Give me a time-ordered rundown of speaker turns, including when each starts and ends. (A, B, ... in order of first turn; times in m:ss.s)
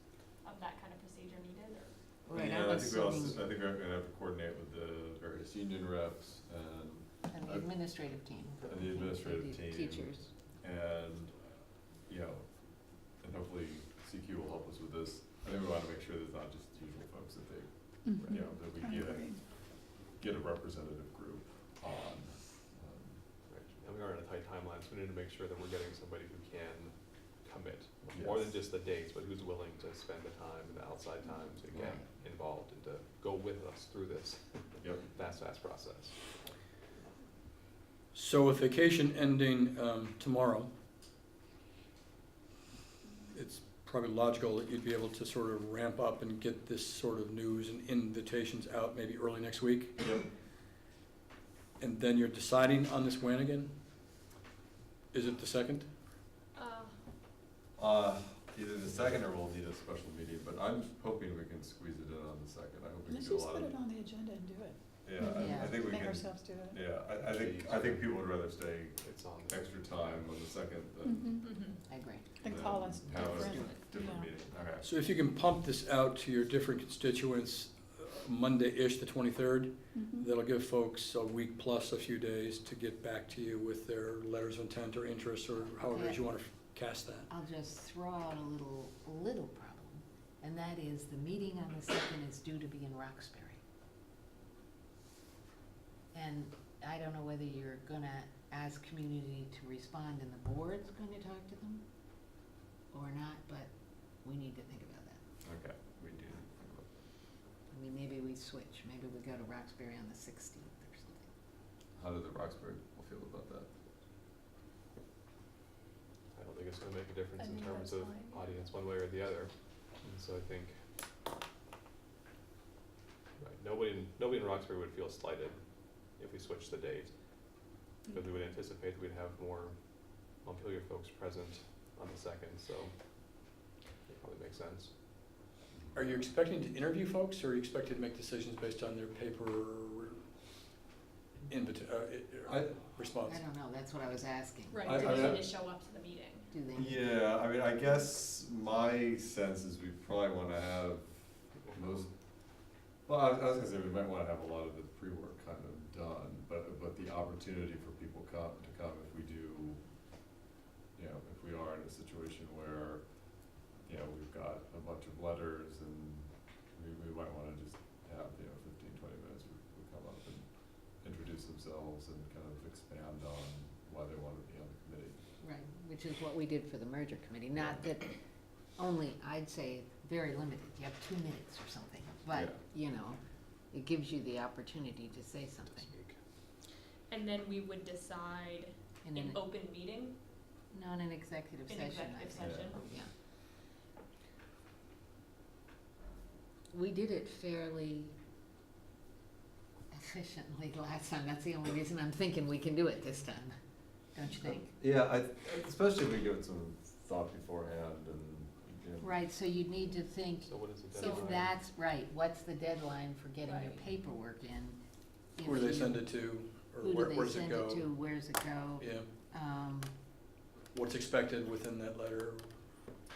0:00.4-0:01.9 A
0:02.3-0:03.5 B
0:02.3-0:08.1 C
0:07.3-0:10.3 B
0:08.6-0:11.5 C
0:12.0-0:23.3 C
0:18.0-0:19.6 D
0:18.2-0:18.6 E
0:23.5-0:36.4 E
0:28.1-0:28.6 C
0:31.7-0:31.9 C
0:34.8-0:35.1 C
0:38.1-0:40.7 F
0:43.3-0:50.0 F
0:51.8-0:53.7 F
0:55.1-0:55.9 F
0:56.6-0:57.0 A
0:57.8-1:03.8 C
1:03.1-1:07.0 D
1:05.0-1:11.3 C
1:05.4-1:05.8 B
1:07.2-1:08.4 E
1:09.0-1:10.4 E
1:11.0-1:11.5 D
1:11.4-1:11.8 A
1:11.9-1:12.3 B
1:12.4-1:14.3 D
1:12.4-1:14.8 C
1:13.2-1:13.7 B
1:14.8-1:27.2 F
1:19.9-1:20.3 D
1:25.9-1:26.2 B
1:27.3-1:33.6 B
1:36.1-1:41.8 B
1:42.9-1:45.2 B
1:45.4-1:47.0 C
1:47.7-1:51.3 B
1:52.0-1:53.7 C
1:56.3-2:00.9 E
1:57.4-1:58.4 A
1:57.8-1:58.2 D
2:03.4-2:14.9 E
2:15.9-2:20.2 F
2:21.5-2:23.4 F
2:22.5-2:22.9 C
2:23.2-2:25.3 B
2:24.7-2:26.5 A
2:24.8-2:25.2 F
2:24.9-2:25.4 C
2:26.5-2:27.0 B
2:26.8-2:32.1 C
2:31.6-2:32.0 E
2:33.0-2:39.9 C
2:40.9-2:55.2 C
2:55.4-2:58.2 B
2:57.6-2:57.8 C
2:58.8-3:05.9 B
3:02.3-3:02.6 C
3:05.7-3:06.2 E
3:07.1-3:10.2 A
3:09.0-3:09.5 B
3:10.7-3:13.1 B
3:11.7-3:12.9 A
3:12.4-3:12.8 C
3:16.7-3:18.1 B
3:19.9-3:23.5 B
3:24.1-3:24.7 B
3:24.5-3:29.1 C
3:29.0-3:34.8 B
3:30.4-3:31.5 E
3:31.0-3:31.3 A
3:33.5-3:33.8 A
3:35.3-3:36.1 B
3:35.4-3:37.9 F
3:36.8-3:39.9 B
3:38.8-3:39.1 F
3:40.7-3:43.0 F